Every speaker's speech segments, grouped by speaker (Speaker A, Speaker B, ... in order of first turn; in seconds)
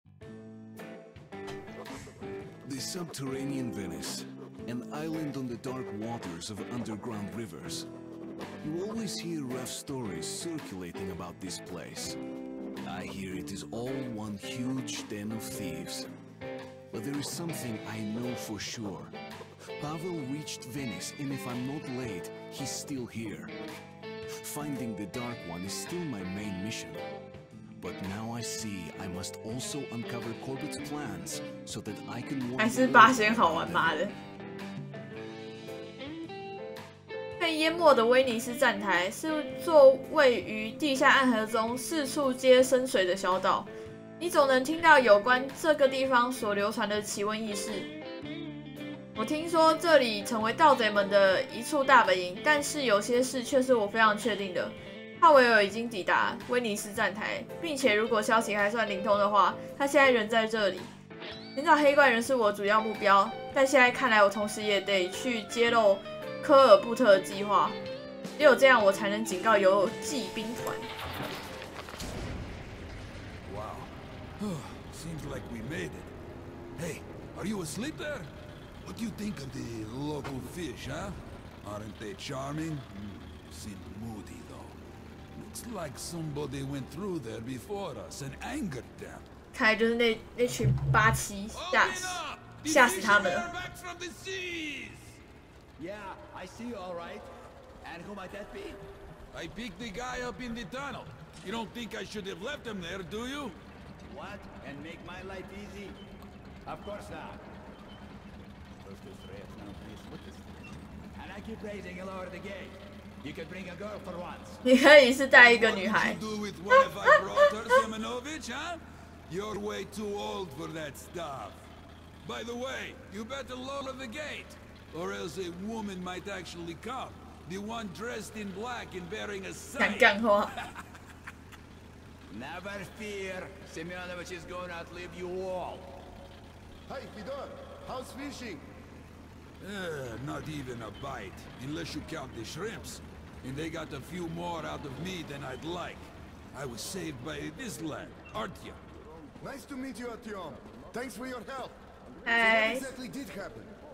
Speaker A: 2.6-7.9, 8.6-12.2, 12.8-16.1, 16.9-19.1, 19.8-23.5, 24.3-27.0, 27.8-34.1
Speaker B: 32.6-34.1, 37.4-47.9, 49.2-60.9, 61.6-67.8, 68.4-70.9, 89.5-93.5, 114.7-116.2, 129.8-130.5, 152.3-152.9
Speaker C: 73.5-76.1, 76.8-78.3, 78.8-84.8, 85.3-89.3, 91.5-95.2, 99.3-103.6, 115.3-121.6, 122.2-130.2, 139.6-148.8
Speaker D: 95.8-97.3, 97.8-98.8, 104.1-106.0, 106.7-107.4, 108.8-110.5, 111.1-114.6, 132.3-136.1
Speaker E: 136.9-138.6, 149.4-153.8